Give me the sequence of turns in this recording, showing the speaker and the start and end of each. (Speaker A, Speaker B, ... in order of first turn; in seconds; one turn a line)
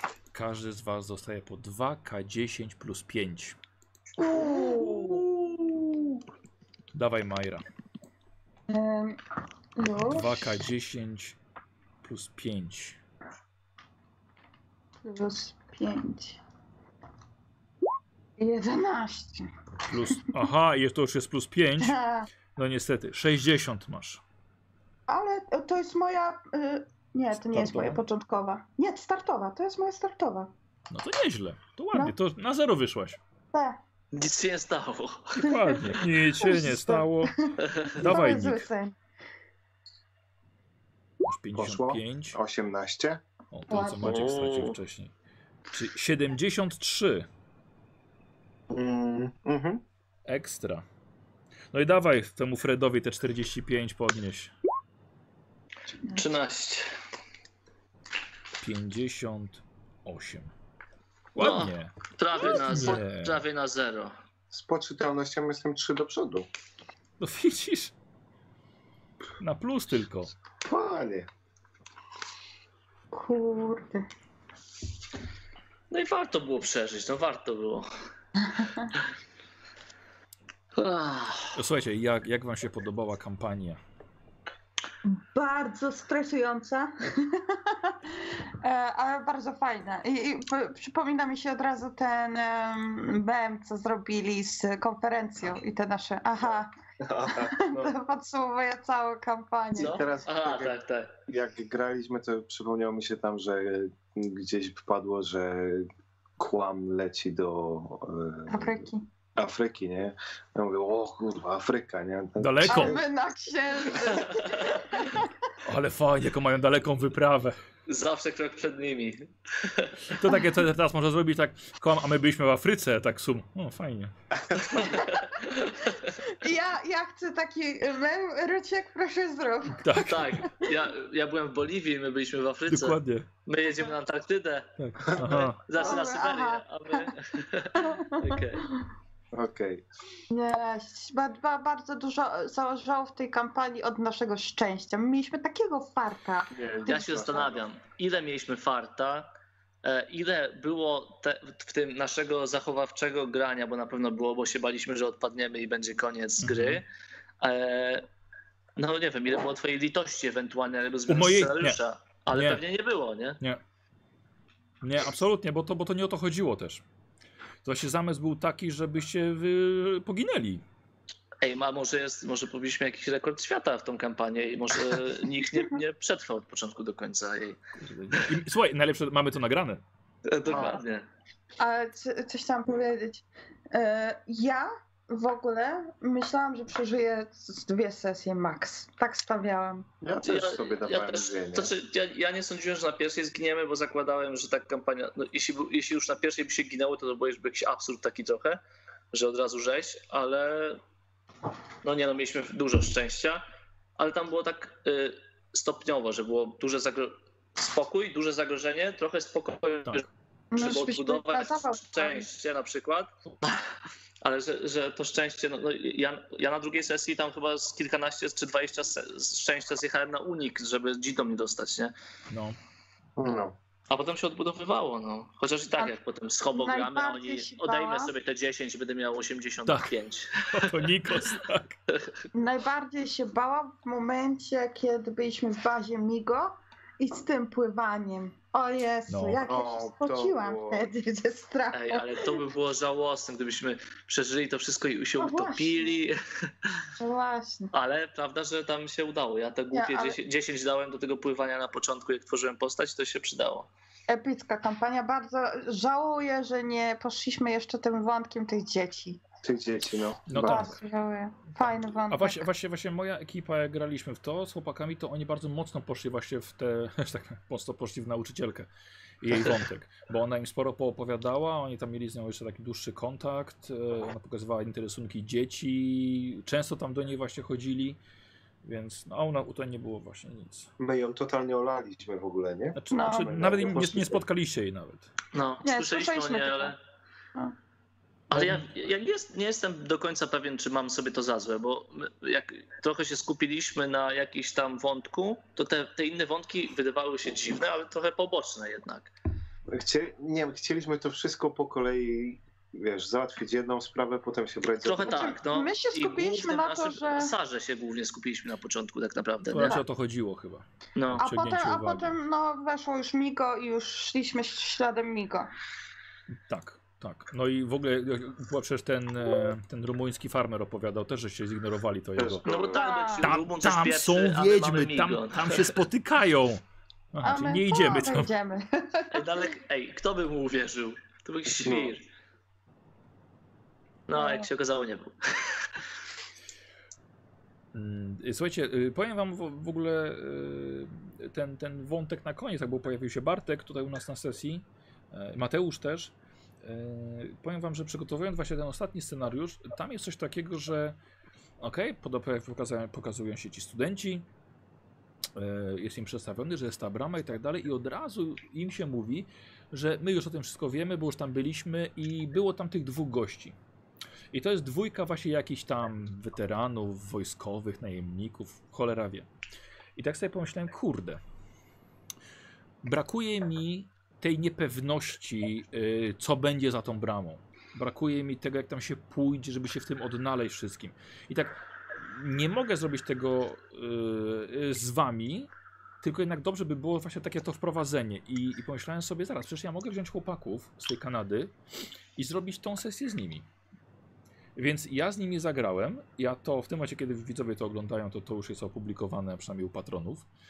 Speaker A: 0.3-3.6
Speaker B: 4.2-5.3
Speaker A: 6.9-7.6
Speaker B: 8.7-9.2
Speaker B: 9.8-10.5
Speaker A: 10.0-11.4
Speaker A: 12.0-13.0
Speaker B: 15.0-16.4
Speaker B: 18.4-19.5
Speaker A: 19.8-22.0
Speaker B: 21.8-22.3
Speaker A: 22.6-24.2
Speaker B: 25.1-30.5
Speaker A: 27.3-28.0
Speaker A: 30.9-33.2
Speaker B: 33.5-33.8
Speaker C: 34.1-35.4
Speaker A: 35.4-37.3
Speaker B: 35.4-39.0
Speaker C: 37.6-37.9
Speaker A: 37.9-38.7
Speaker A: 41.2-42.4
Speaker D: 41.5-43.2
Speaker A: 43.5-45.1
Speaker B: 43.7-44.1
Speaker C: 43.9-44.8
Speaker A: 45.7-47.3
Speaker D: 48.7-49.8
Speaker A: 50.3-50.8
Speaker A: 51.7-54.5
Speaker C: 56.1-56.9
Speaker A: 58.6-60.5
Speaker A: 61.4-63.4
Speaker C: 61.4-64.1
Speaker D: 64.5-66.5
Speaker A: 67.2-67.9
Speaker A: 69.4-70.3
Speaker D: 70.6-71.3
Speaker B: 73.1-74.1
Speaker C: 75.9-77.9
Speaker B: 78.4-78.9
Speaker C: 80.7-81.6
Speaker A: 81.5-83.8
Speaker B: 85.0-96.7
Speaker D: 96.5-97.9
Speaker B: 97.3-100.0
Speaker D: 99.8-100.8
Speaker C: 99.8-101.1
Speaker D: 101.3-105.9
Speaker D: 106.4-113.0
Speaker B: 108.5-109.0
Speaker A: 112.4-113.0
Speaker B: 112.6-115.3
Speaker A: 115.6-117.5
Speaker C: 117.9-120.1
Speaker A: 120.1-124.1
Speaker C: 124.7-126.2
Speaker B: 124.9-125.2
Speaker B: 126.2-130.0
Speaker A: 129.8-130.5
Speaker C: 129.9-138.7
Speaker A: 132.7-133.3
Speaker A: 134.8-135.7
Speaker D: 135.0-135.3
Speaker B: 135.7-137.1
Speaker B: 137.8-138.6
Speaker D: 139.3-139.8
Speaker B: 140.3-147.3
Speaker D: 146.5-147.6
Speaker C: 146.8-149.3
Speaker C: 149.8-156.8
Speaker A: 156.4-156.8
Speaker C: 157.4-158.0
Speaker C: 158.8-163.4
Speaker A: 161.1-161.8
Speaker A: 162.3-162.6
Speaker A: 164.8-166.8
Speaker A: 167.6-170.6
Speaker C: 171.4-177.6
Speaker A: 177.8-179.8
Speaker C: 180.3-181.1
Speaker D: 180.5-180.8
Speaker B: 181.6-189.9
Speaker D: 190.0-191.7
Speaker C: 190.2-198.6
Speaker C: 199.1-200.8
Speaker C: 201.8-203.4
Speaker C: 204.0-221.9
Speaker B: 210.5-212.2
Speaker A: 222.3-222.6
Speaker D: 223.2-223.5
Speaker C: 223.9-230.8
Speaker B: 226.5-228.1
Speaker A: 229.7-229.9
Speaker A: 230.5-231.8
Speaker B: 232.3-242.4
Speaker A: 239.1-239.4
Speaker D: 239.4-240.9
Speaker C: 241.7-246.9
Speaker B: 245.2-245.9
Speaker B: 247.0-247.7
Speaker C: 247.7-253.7
Speaker B: 249.7-250.2
Speaker B: 254.1-259.2
Speaker D: 259.4-260.7
Speaker A: 260.3-260.7
Speaker B: 260.3-262.4
Speaker A: 262.1-268.7
Speaker A: 269.2-278.0
Speaker A: 278.6-280.7
Speaker D: 280.8-284.2
Speaker A: 282.7-285.1
Speaker B: 282.9-283.3
Speaker C: 285.3-286.8
Speaker B: 285.6-286.7
Speaker C: 288.3-299.1
Speaker D: 299.7-305.4
Speaker C: 304.8-309.8
Speaker B: 305.1-307.3
Speaker A: 309.5-312.1
Speaker B: 309.5-309.8
Speaker C: 310.9-311.2
Speaker B: 311.2-315.5
Speaker A: 316.3-322.5
Speaker D: 322.2-322.8
Speaker C: 322.4-325.8
Speaker B: 322.7-323.3
Speaker A: 323.2-326.6
Speaker A: 327.1-328.3
Speaker B: 327.2-329.5
Speaker C: 329.1-332.0
Speaker D: 331.6-331.9
Speaker C: 334.1-335.8
Speaker B: 334.1-334.5
Speaker A: 337.7-351.0
Speaker A: 351.6-354.2
Speaker A: 355.3-363.6
Speaker A: 364.3-369.3
Speaker A: 369.9-371.2
Speaker A: 372.8-385.5
Speaker A: 386.0-391.5
Speaker A: 392.1-393.4
Speaker A: 394.6-400.3